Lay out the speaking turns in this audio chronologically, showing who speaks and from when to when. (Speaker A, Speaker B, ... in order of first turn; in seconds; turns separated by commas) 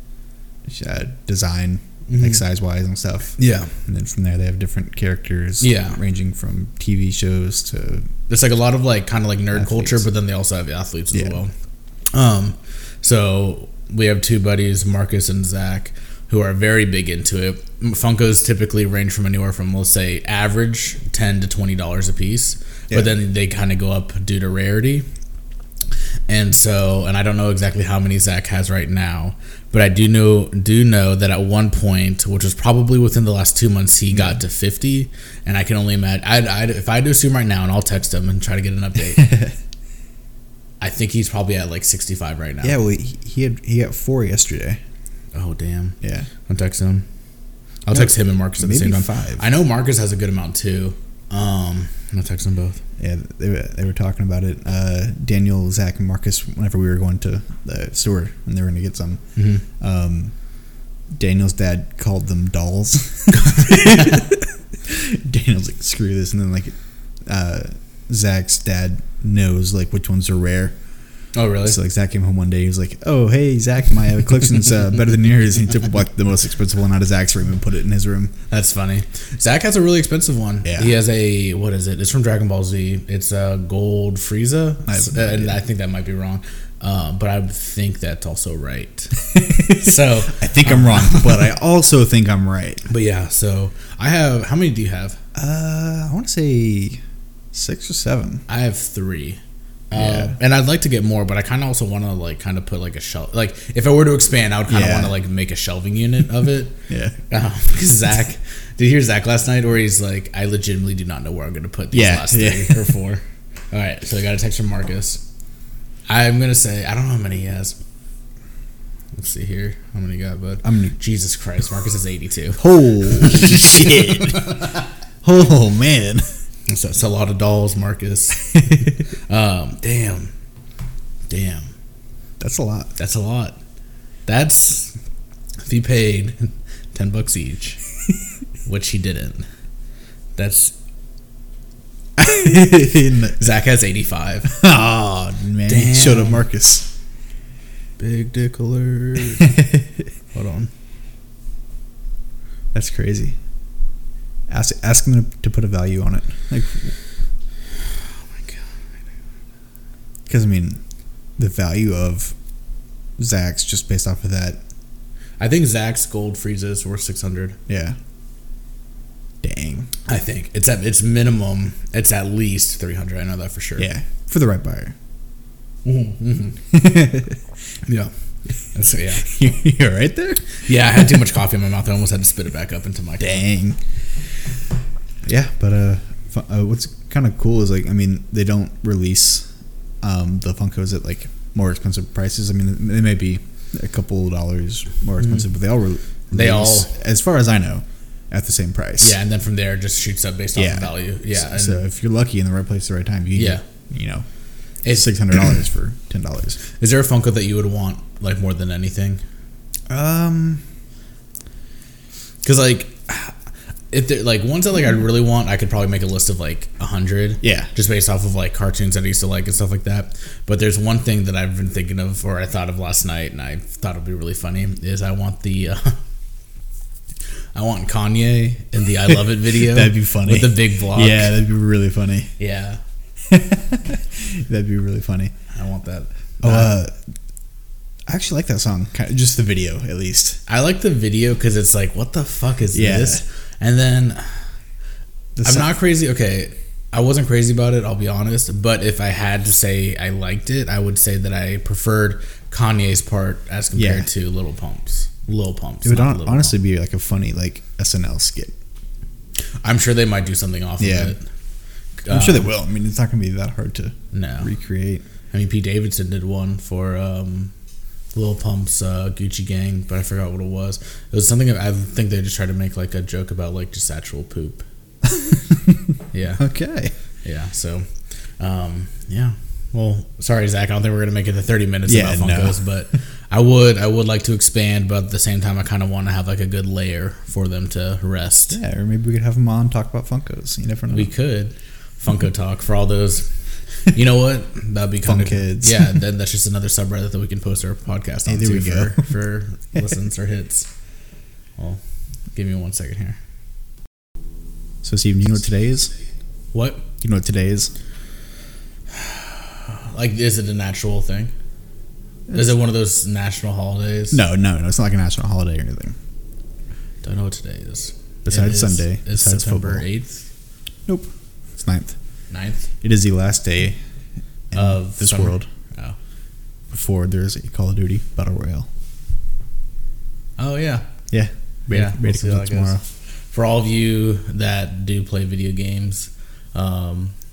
Speaker A: 0.7-8.1, Speaker B: 2.1-2.4, Speaker B: 3.4-3.7, Speaker B: 5.6-6.0, Speaker B: 8.3-11.5, Speaker A: 9.5-10.1, Speaker A: 11.1-11.4, Speaker B: 12.1-25.1, Speaker B: 26.3-39.4, Speaker A: 34.1-34.4, Speaker A: 39.2-39.5, Speaker B: 40.8-42.8, Speaker A: 42.6-44.8, Speaker B: 45.3-47.0, Speaker A: 46.0-46.3, Speaker B: 47.9-52.8, Speaker A: 47.9-49.4, Speaker A: 53.0-59.2, Speaker B: 59.4-59.6, Speaker A: 59.8-60.3, Speaker A: 61.1-66.8, Speaker B: 63.3-64.3, Speaker A: 67.3-70.8, Speaker B: 71.3-71.8, Speaker A: 71.6-78.3, Speaker B: 78.5-91.5, Speaker A: 80.6-81.0, Speaker A: 84.9-85.6, Speaker A: 89.3-92.8, Speaker B: 92.9-95.2, Speaker A: 95.3-97.0, Speaker A: 97.5-98.4, Speaker B: 98.5-99.4, Speaker B: 99.9-106.8, Speaker A: 99.9-100.4, Speaker A: 104.7-105.2, Speaker A: 106.9-107.2, Speaker B: 107.3-115.2, Speaker A: 111.9-112.9, Speaker B: 116.1-117.8, Speaker B: 119.2-124.8, Speaker A: 120.6-121.0, Speaker A: 122.6-126.3, Speaker B: 126.7-130.3, Speaker A: 128.5-128.9, Speaker B: 131.3-131.7, Speaker A: 132.4-132.9, Speaker B: 133.0-133.6, Speaker B: 134.3-134.9, Speaker B: 135.6-137.8, Speaker B: 138.7-139.5, Speaker B: 140.4-140.7, Speaker A: 142.2-143.4, Speaker B: 143.4-144.6, Speaker A: 144.5-146.9, Speaker B: 145.7-146.4, Speaker B: 148.0-149.7, Speaker B: 150.3-150.7, Speaker A: 152.7-153.4, Speaker A: 154.5-156.9, Speaker A: 160.3-160.8, Speaker A: 161.4-162.3, Speaker A: 163.2-164.6, Speaker B: 165.4-167.6, Speaker A: 167.7-168.0, Speaker A: 169.4-169.9, Speaker B: 170.1-173.9, Speaker A: 173.8-174.9, Speaker B: 175.8-176.6, Speaker A: 176.7-177.4, Speaker B: 177.8-178.1, Speaker B: 178.7-179.3, Speaker A: 179.2-181.1, Speaker B: 180.6-183.5, Speaker A: 183.2-183.8, Speaker A: 185.2-189.5, Speaker A: 190.0-199.2, Speaker B: 196.3-196.9, Speaker B: 199.0-201.8, Speaker A: 200.6-204.2, Speaker B: 203.3-203.6, Speaker B: 204.8-205.2, Speaker A: 204.9-206.6, Speaker B: 206.7-209.2, Speaker A: 209.9-210.6, Speaker B: 212.4-213.3, Speaker B: 213.9-226.0, Speaker A: 217.4-217.7, Speaker B: 227.6-231.4, Speaker A: 229.4-232.3, Speaker B: 232.4-232.8, Speaker A: 233.3-235.3, Speaker B: 235.5-236.7, Speaker A: 236.4-237.0, Speaker A: 238.1-240.4, Speaker B: 240.5-244.4, Speaker A: 242.7-243.2, Speaker A: 245.4-245.7, Speaker B: 245.4-256.6, Speaker A: 253.8-254.1, Speaker A: 255.8-258.5, Speaker B: 259.6-261.2, Speaker A: 260.8-261.1, Speaker B: 262.0-262.5, Speaker A: 262.1-265.0, Speaker B: 264.1-264.5, Speaker B: 265.3-267.5, Speaker B: 268.1-274.6, Speaker A: 275.1-276.9, Speaker B: 276.1-276.4, Speaker B: 277.2-277.9, Speaker B: 278.4-288.6, Speaker A: 281.9-282.6, Speaker A: 288.5-291.1, Speaker B: 290.9-293.3, Speaker B: 293.9-300.7, Speaker A: 295.1-295.9, Speaker A: 298.3-299.1, Speaker B: 302.4-303.2, Speaker A: 304.8-305.9, Speaker B: 306.5-306.9, Speaker A: 307.0-307.7, Speaker B: 308.9-311.3, Speaker A: 312.3-312.6, Speaker B: 312.3-314.2, Speaker A: 314.1-316.0, Speaker B: 317.0-320.2, Speaker A: 318.3-319.9, Speaker A: 320.9-321.9, Speaker B: 322.3-322.7, Speaker A: 322.8-323.8, Speaker A: 324.5-325.5, Speaker B: 324.5-326.0, Speaker A: 326.7-328.7, Speaker B: 330.4-330.9, Speaker A: 331.1-332.8, Speaker B: 331.7-332.8, Speaker B: 333.3-337.1